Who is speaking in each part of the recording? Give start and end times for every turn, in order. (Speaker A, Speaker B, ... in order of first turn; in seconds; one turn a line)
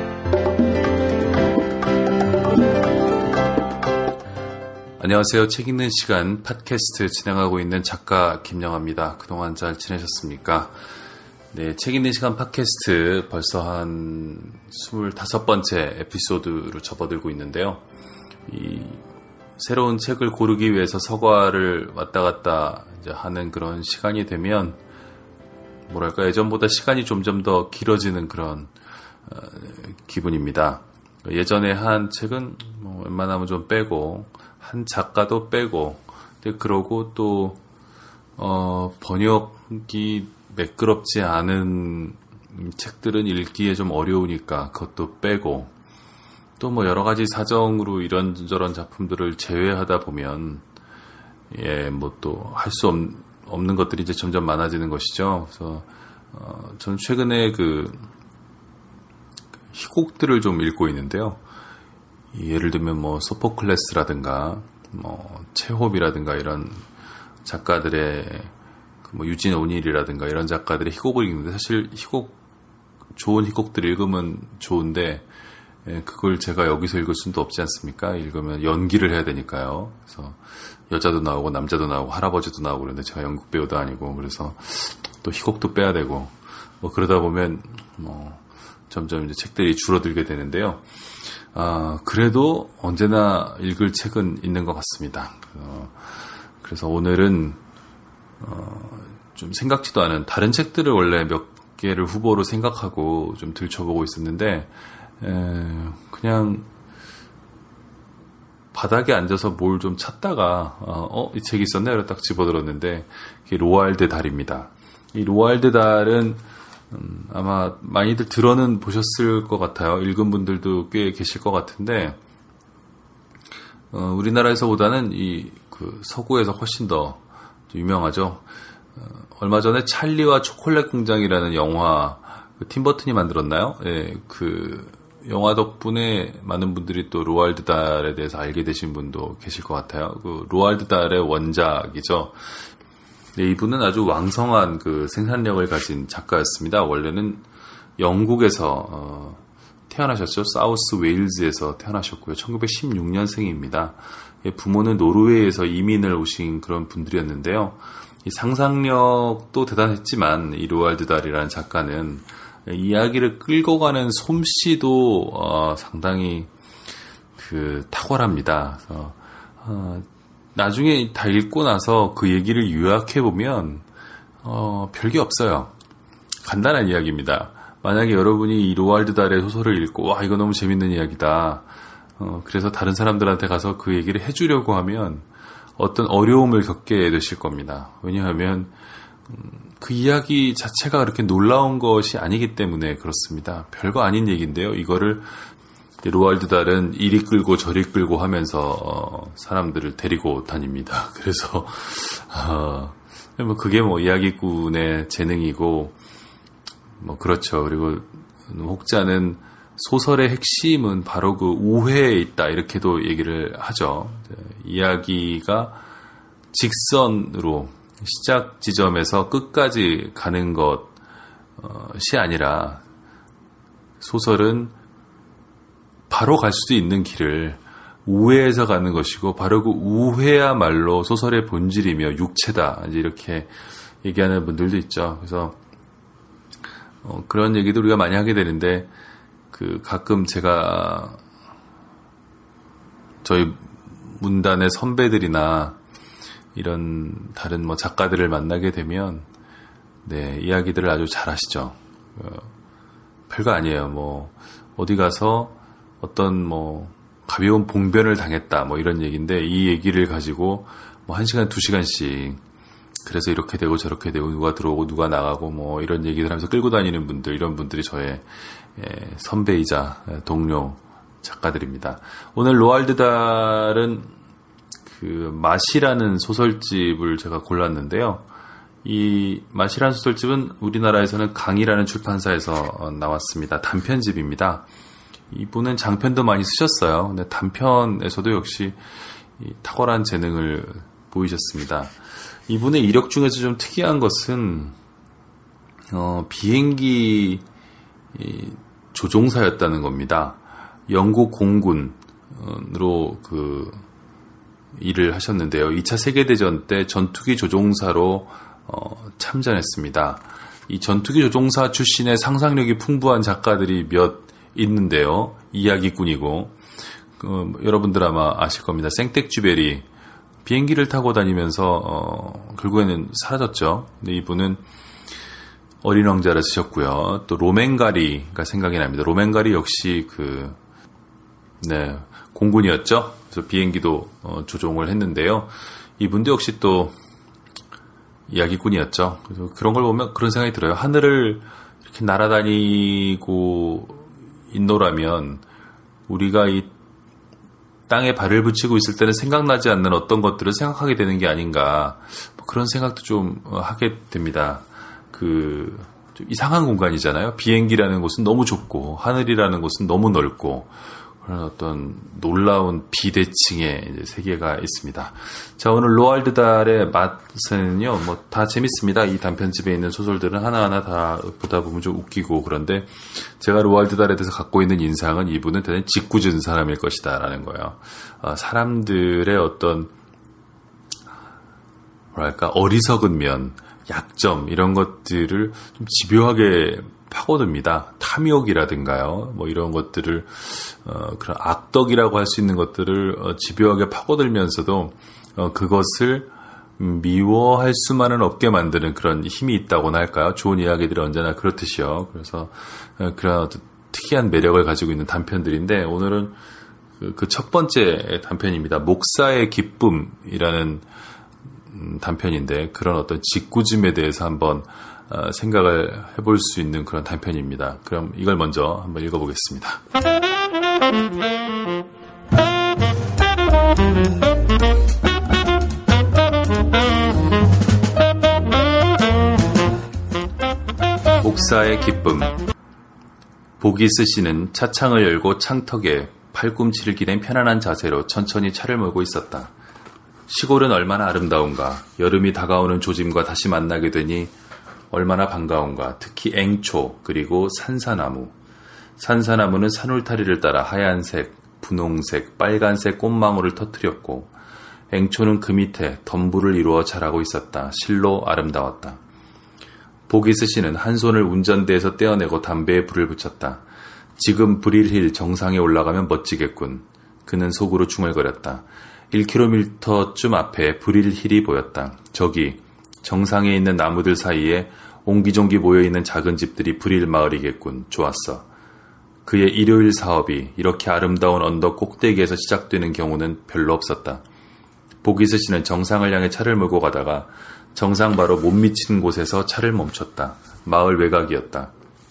Speaker A: 5.0-10.7
Speaker A: 11.5-17.8
Speaker A: 18.5-19.0
Speaker A: 19.6-24.8
Speaker A: 25.9-28.7
Speaker A: 29.3-37.6
Speaker A: 38.4-45.7
Speaker A: 46.6-50.6
Speaker A: 51.5-58.1
Speaker A: 59.7-61.4
Speaker A: 62.3-66.8
Speaker A: 67.4-68.5
Speaker A: 69.0-72.3
Speaker A: 73.1-75.3
Speaker A: 75.8-90.8
Speaker A: 91.5-97.6
Speaker A: 98.4-106.7
Speaker A: 108.7-122.2
Speaker A: 123.9-128.4
Speaker A: 128.9-142.5
Speaker A: 143.3-147.4
Speaker A: 148.0-166.5
Speaker A: 167.4-173.8
Speaker A: 174.4-175.7
Speaker A: 176.4-188.7
Speaker A: 189.3-195.4
Speaker A: 196.0-205.9
Speaker A: 207.0-215.8
Speaker A: 216.5-220.9
Speaker A: 221.6-222.8
Speaker A: 224.0-224.7
Speaker A: 226.1-233.5
Speaker A: 234.0-235.6
Speaker A: 237.0-238.9
Speaker A: 239.5-241.2
Speaker A: 243.2-245.8
Speaker A: 246.5-249.3
Speaker A: 250.0-252.5
Speaker A: 253.3-262.4
Speaker A: 263.0-274.1
Speaker A: 274.9-278.2
Speaker A: 278.8-284.6
Speaker A: 285.3-294.7
Speaker A: 295.9-297.4
Speaker A: 298.1-303.8
Speaker A: 304.7-316.6
Speaker A: 317.2-319.9
Speaker A: 320.4-324.6
Speaker A: 325.8-330.6
Speaker A: 331.6-336.9
Speaker A: 338.3-345.4
Speaker A: 346.1-346.7
Speaker A: 347.9-379.9
Speaker A: 382.1-406.4
Speaker A: 407.0-410.9
Speaker A: 411.7-419.8
Speaker A: 431.2-432.4
Speaker A: 433.6-439.5
Speaker A: 440.3-444.3
Speaker A: 444.9-448.3
Speaker A: 449.0-454.3
Speaker A: 454.9-459.0
Speaker A: 460.1-463.6
Speaker A: 464.1-478.5
Speaker A: 479.2-484.2
Speaker A: 485.0-491.7